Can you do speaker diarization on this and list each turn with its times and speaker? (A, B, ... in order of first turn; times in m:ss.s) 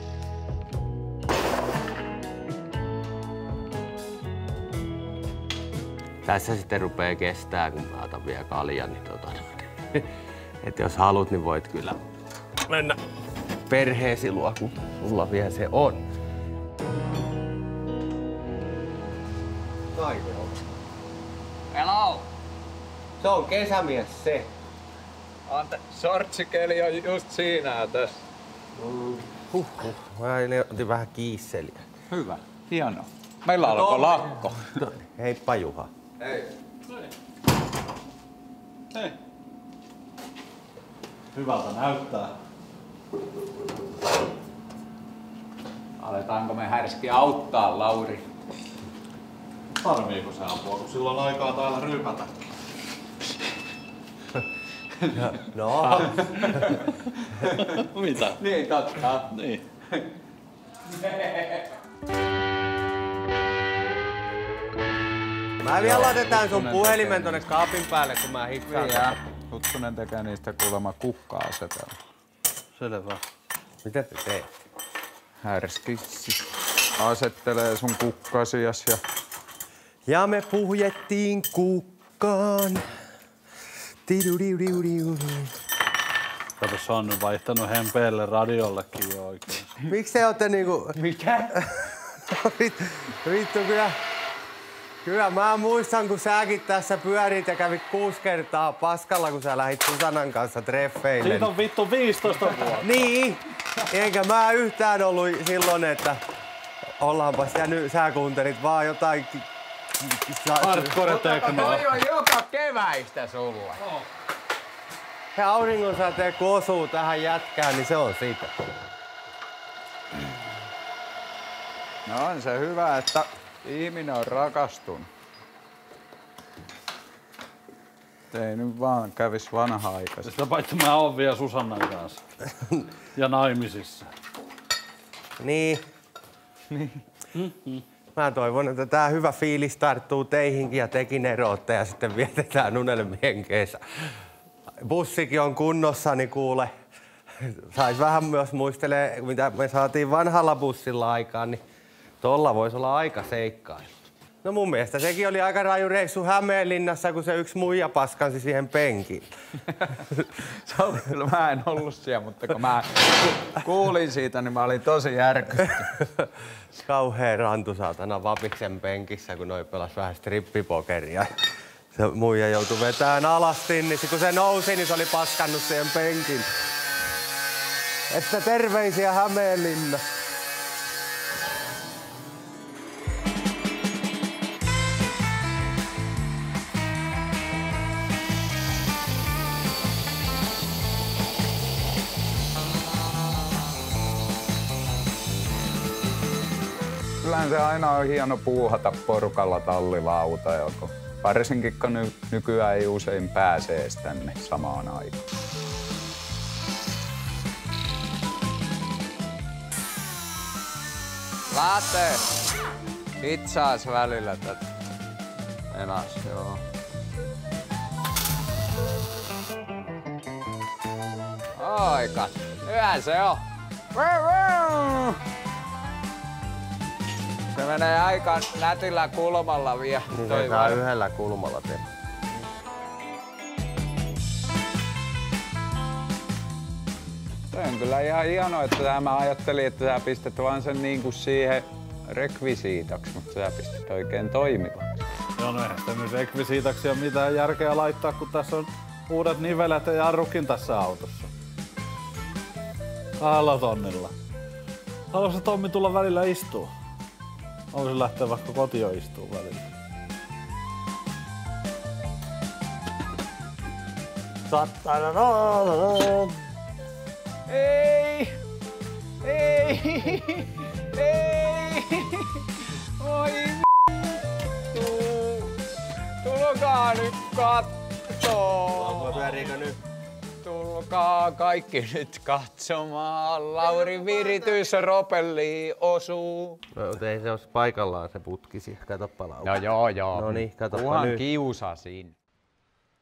0:06.3-0:10.1 A
0:10.6-0:12.0 A
0:12.7-0:13.0 A
0:13.7-0:16.0 A
0:19.9-0:20.6 A
0:21.7-0:22.3 B
0:23.2-0:24.5 A
0:25.5-0:28.2 B
0:28.8-0:31.9 A
0:32.1-0:34.8 B
0:33.6-0:35.9 A
0:36.2-0:36.5 B
0:41.3-0:42.3 C
0:46.0-0:48.2 B
0:49.8-0:52.5 C
0:55.1-0:56.8 A
0:56.0-0:57.8 B
0:57.3-0:58.4 C
0:58.4-0:59.3 B
0:59.3-0:59.6 C
1:00.9-1:01.6 B
1:05.6-1:09.2 A
1:05.8-1:07.4 B
1:08.7-1:12.0 B
1:12.8-1:13.2 C
1:13.8-1:14.5 A
1:15.4-1:19.0 B
1:20.1-1:22.8 A
1:24.1-1:25.5 A
1:26.6-1:29.7 C
1:29.9-1:31.0 A
1:31.0-1:31.6 B
1:31.6-1:34.0 A
1:35.0-1:41.5 A
1:41.2-1:43.0 C
1:42.8-1:46.2 A
1:47.0-1:49.5 A
1:50.0-1:51.0 A
1:50.6-1:51.9 C
1:51.0-1:53.9 B
1:55.3-1:58.5 A
2:02.1-2:05.1 B
2:08.3-2:10.3 B
2:10.2-2:12.2 C
2:13.1-2:14.1 C
2:15.4-2:15.8 A
2:16.7-2:17.0 B
2:17.4-2:17.8 C
2:18.2-2:24.1 A
2:24.8-2:26.7 A
2:27.4-2:31.6 A
2:32.2-2:33.9 A
2:34.4-2:39.3 A
2:39.8-2:45.9 B
2:46.8-2:51.4 A
2:51.9-2:56.5 A
2:58.1-3:00.0 A
3:17.2-3:25.2 B
3:31.5-3:32.4 B
3:33.2-3:34.7 B
3:35.7-3:36.6 B
3:41.6-3:45.2 B
3:47.5-3:50.8 B
3:50.1-3:51.8 A
3:57.5-4:04.9 B
4:05.4-4:11.3 C
4:13.2-4:14.1 C
4:15.1-4:16.7 C
4:17.7-4:19.7 C
4:24.5-4:26.3 A
4:27.5-4:28.4 B
4:29.2-4:35.6 B
4:36.2-4:39.3 B
4:38.8-4:39.8 A
4:40.4-4:46.6 B
4:46.7-4:51.2 A
4:49.4-4:52.1 B